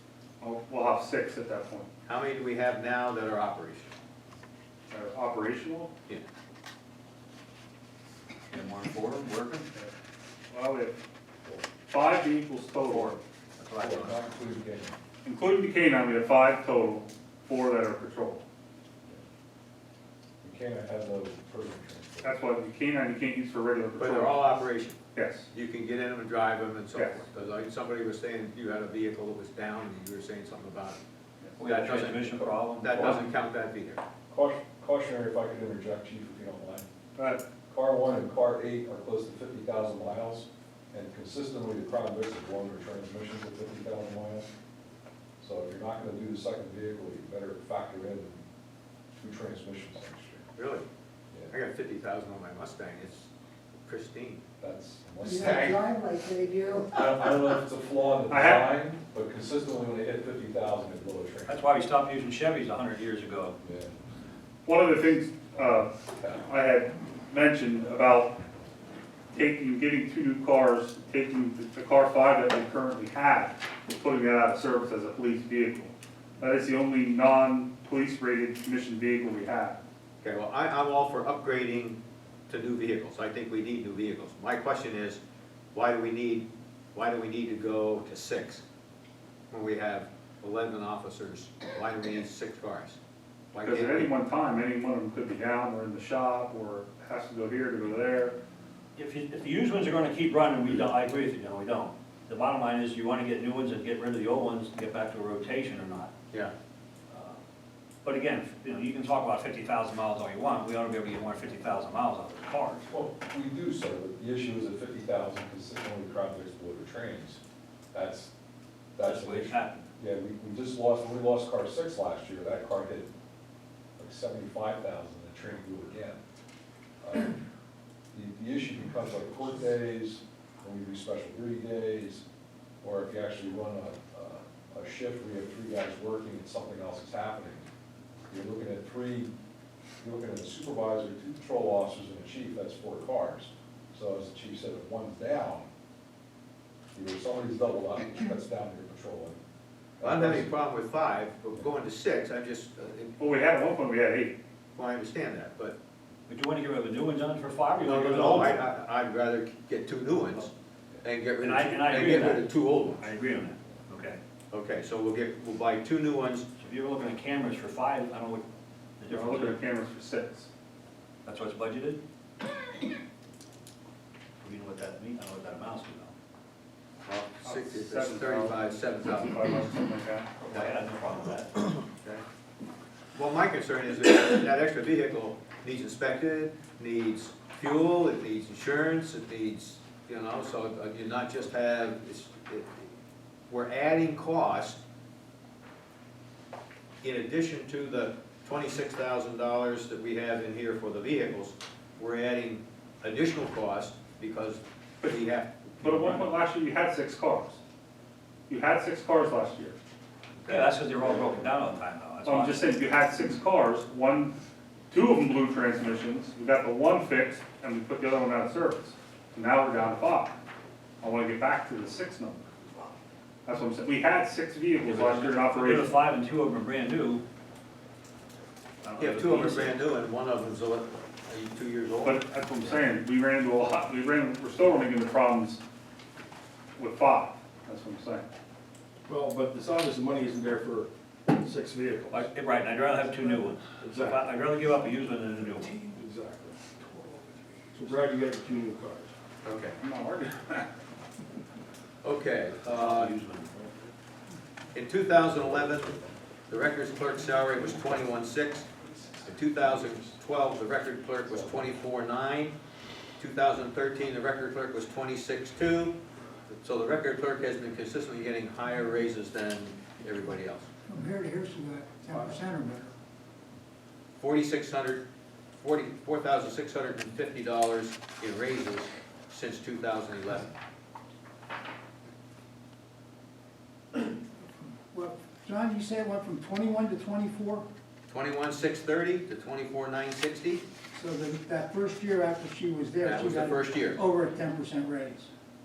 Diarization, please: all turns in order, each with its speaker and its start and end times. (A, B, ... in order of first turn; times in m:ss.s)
0:00.4-0:01.9 A
0:02.0-0:03.9 B
0:04.9-0:05.9 A
0:08.5-0:09.7 C
0:10.5-0:11.0 A
0:11.8-0:13.2 A
0:13.6-0:14.1 C
0:13.8-0:15.0 D
0:15.2-0:18.4 A
0:20.4-0:22.3 D
0:22.2-0:24.4 A
0:24.0-0:25.0 B
0:25.1-0:25.5 A
0:25.5-0:31.0 B
0:26.9-0:27.2 A
0:31.6-0:33.2 C
0:31.6-0:34.0 B
0:34.3-0:36.9 D
0:37.2-0:37.4 A
0:37.7-0:44.5 D
0:45.4-0:48.4 D
0:49.2-0:50.4 D
0:50.6-0:50.9 B
0:51.5-0:53.3 B
0:53.8-0:54.4 B
0:54.6-0:55.8 D
0:55.2-0:56.9 E
0:55.4-0:55.7 B
0:56.9-1:01.6 D
0:58.3-0:58.7 A
1:01.5-1:03.6 C
1:03.6-1:04.0 D
1:04.6-1:05.9 A
1:05.5-1:06.4 D
1:06.4-1:08.3 A
1:09.3-1:19.8 A
1:20.2-1:25.2 B
1:25.7-1:28.6 B
1:29.5-1:33.0 B
1:33.5-1:34.1 B
1:33.6-1:38.4 A
1:38.9-1:46.1 C
1:47.1-1:47.4 C
1:48.0-1:52.9 C
1:52.9-1:57.4 D
1:57.9-1:58.3 D
1:58.9-2:03.1 D
1:59.0-1:59.8 C
2:04.0-2:06.2 D
2:07.0-2:07.4 D
2:08.1-2:12.2 D
2:12.8-2:17.7 D
2:18.3-2:19.3 D
2:20.0-2:25.7 D
2:26.9-2:29.4 D
2:30.0-2:30.5 D
2:30.0-2:33.2 B
2:33.2-2:34.3 A
2:34.7-2:35.8 B
2:36.3-2:38.7 C
2:37.8-2:40.5 B
2:41.0-2:43.1 B
2:41.4-2:42.5 C
2:43.0-2:44.2 C
2:44.5-2:46.5 B
2:46.6-2:48.4 C
2:49.0-2:49.6 C
2:49.1-2:50.5 A
2:51.2-2:52.0 C
2:54.4-2:56.1 C
2:57.0-2:59.4 B
2:57.4-3:00.4 A
3:00.4-3:01.5 C
3:00.5-3:00.8 B
3:01.9-3:02.2 B
3:03.1-3:12.9 B
3:13.5-3:14.8 B
3:17.0-3:26.3 B
3:25.8-3:27.6 A
3:28.5-3:29.8 A
3:30.4-3:30.6 B
3:30.4-3:32.7 C
3:32.2-3:34.4 A
3:34.9-3:40.4 A
3:41.0-3:42.7 A
3:43.4-3:45.9 A
3:44.9-3:47.2 C
3:48.8-3:49.8 C
3:49.0-3:52.7 B
3:52.0-3:55.6 A
3:56.8-3:58.2 A
3:59.1-4:02.3 F
4:02.1-4:05.8 C
4:03.8-4:04.4 F
4:05.4-4:06.9 F
4:07.7-4:09.1 F
4:09.4-4:09.8 B
4:09.8-4:10.7 F
4:12.0-4:13.1 B
4:12.6-4:13.7 C
4:14.7-4:15.9 B
4:15.1-4:16.2 D
4:16.5-4:18.7 B
4:19.2-4:22.5 B
4:21.3-4:21.7 D
4:23.2-4:26.0 B
4:26.6-4:30.7 B
4:30.9-4:32.9 E
4:34.2-4:35.0 B
4:35.6-4:40.5 B
4:44.9-4:47.7 E
4:48.1-4:50.6 B
4:50.9-4:55.3 E
4:53.0-4:54.0 B